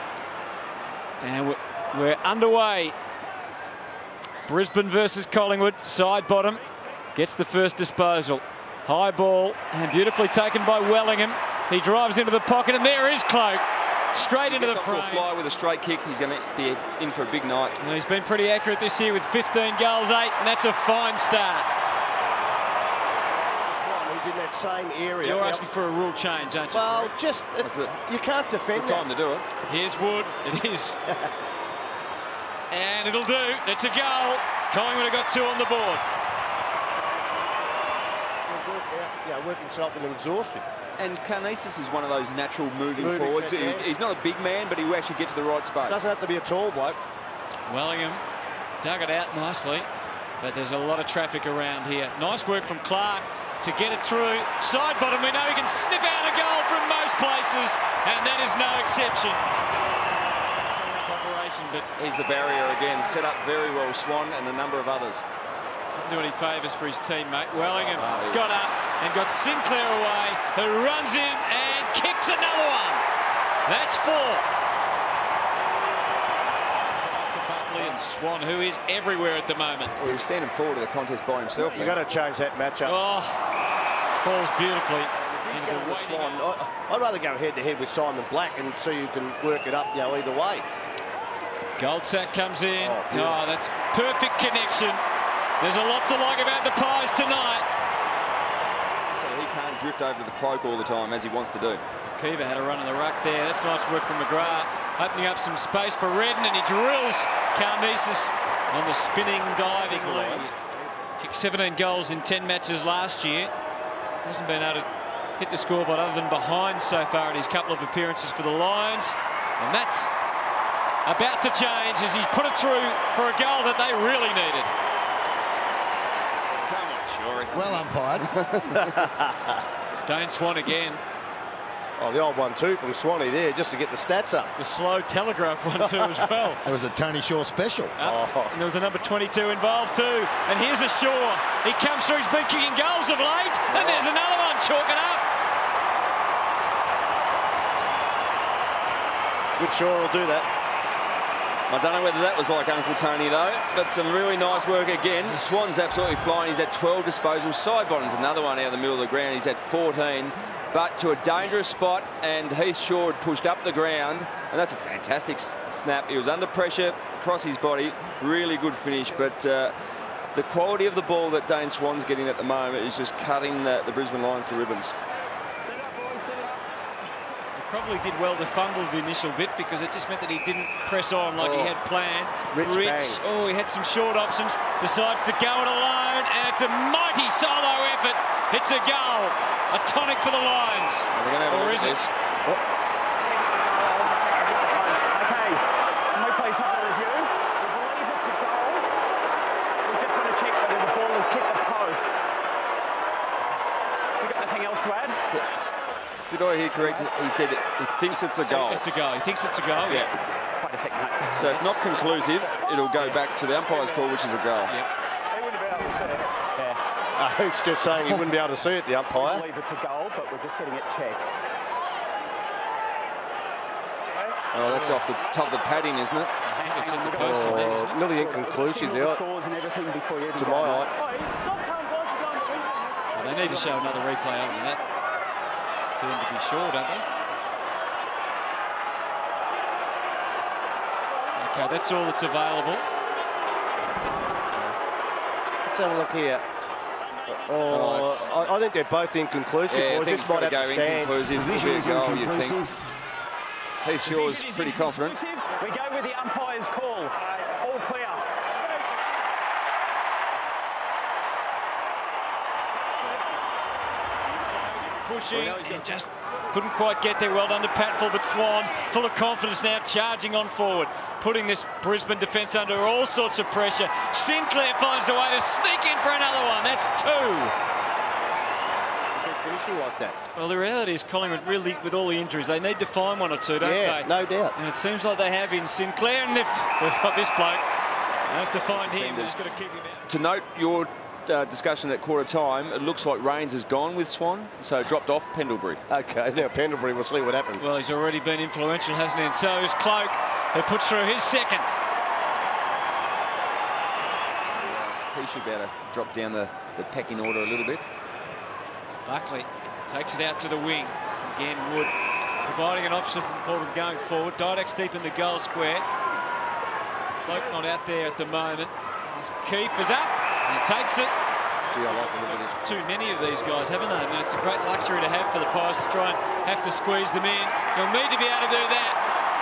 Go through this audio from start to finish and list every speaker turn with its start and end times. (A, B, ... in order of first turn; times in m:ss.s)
0:01.2-0:03.0 A
0:04.5-0:06.6 A
0:07.2-0:15.3 A
0:14.4-0:17.7 B
0:17.8-0:21.7 A
0:23.6-0:25.6 C
0:25.2-0:27.1 A
0:26.7-0:29.1 C
0:27.6-0:27.9 B
0:28.7-0:29.5 B
0:29.6-0:31.0 A
0:32.7-0:36.0 A
0:37.2-0:37.5 C
0:38.5-0:40.6 C
0:41.0-0:46.1 B
0:42.9-0:43.8 C
0:45.8-0:47.0 C
0:47.7-0:48.2 A
0:48.8-0:49.9 A
0:50.4-0:59.4 A
1:00.6-1:01.9 A
1:02.0-1:05.2 B
1:05.9-1:13.0 A
1:07.7-1:08.4 B
1:13.7-1:14.4 A
1:17.0-1:20.0 A
1:20.0-1:22.0 B
1:21.6-1:23.0 C
1:22.9-1:23.4 A
1:24.1-1:26.5 A
1:25.2-1:30.7 C
1:31.8-1:35.0 A
1:32.8-1:33.4 C
1:35.6-1:37.6 A
1:39.1-1:41.8 B
1:42.0-1:50.5 A
1:49.6-1:51.0 C
1:51.2-1:53.5 A
1:54.2-1:54.9 A
1:55.4-2:00.1 A
2:01.0-2:04.7 A
2:06.5-2:09.0 B
2:07.5-2:08.4 D
2:08.7-2:09.6 C
2:09.9-2:11.0 A
2:12.0-2:14.5 C
2:14.6-2:16.6 A
2:15.8-2:16.6 C
2:16.6-2:18.0 D
2:18.0-2:25.2 A
2:18.0-2:18.6 C
2:23.7-2:24.1 C
2:29.6-2:30.5 C
2:31.7-2:49.7 B
2:50.3-2:54.9 B
2:55.7-2:56.6 E
2:57.6-3:12.1 A
3:01.4-3:01.7 C
3:02.5-3:03.2 C
3:11.1-3:12.1 B
3:13.2-3:18.9 E
3:19.8-3:22.2 E
3:24.2-3:25.2 E
3:26.3-3:28.8 B
3:28.5-3:30.1 A
3:29.9-3:30.1 B
3:30.5-3:33.1 E
3:31.3-3:34.7 B
3:35.3-3:36.8 E
3:37.2-3:39.4 C
3:39.2-3:41.3 E
3:44.1-3:44.4 E
3:44.5-3:46.3 B
3:46.5-3:48.0 A
3:46.6-3:52.8 E
3:47.2-3:49.2 C
3:50.4-3:50.9 C
3:53.1-3:54.8 A
3:53.4-3:53.8 E
3:55.9-3:57.0 A
4:01.4-4:02.8 A
4:05.7-4:06.4 C
4:07.3-4:11.2 C
4:07.3-4:07.8 E
4:07.7-4:08.4 B
4:09.7-4:12.6 B
4:11.3-4:12.9 D
4:13.8-4:15.2 B
4:14.0-4:18.5 E
4:24.7-4:37.5 A
4:25.3-4:26.0 E
4:39.2-4:40.2 C
4:40.4-4:47.6 A
4:43.6-4:44.6 C
4:48.3-4:50.1 A
4:48.6-4:49.4 B
4:50.1-4:55.8 B
4:55.9-4:57.7 C
4:57.6-5:01.7 A
5:04.6-5:07.8 B
5:09.0-5:11.9 A
5:12.5-5:15.9 A
5:17.2-5:21.1 A
5:21.7-5:22.7 C
5:21.8-5:29.0 A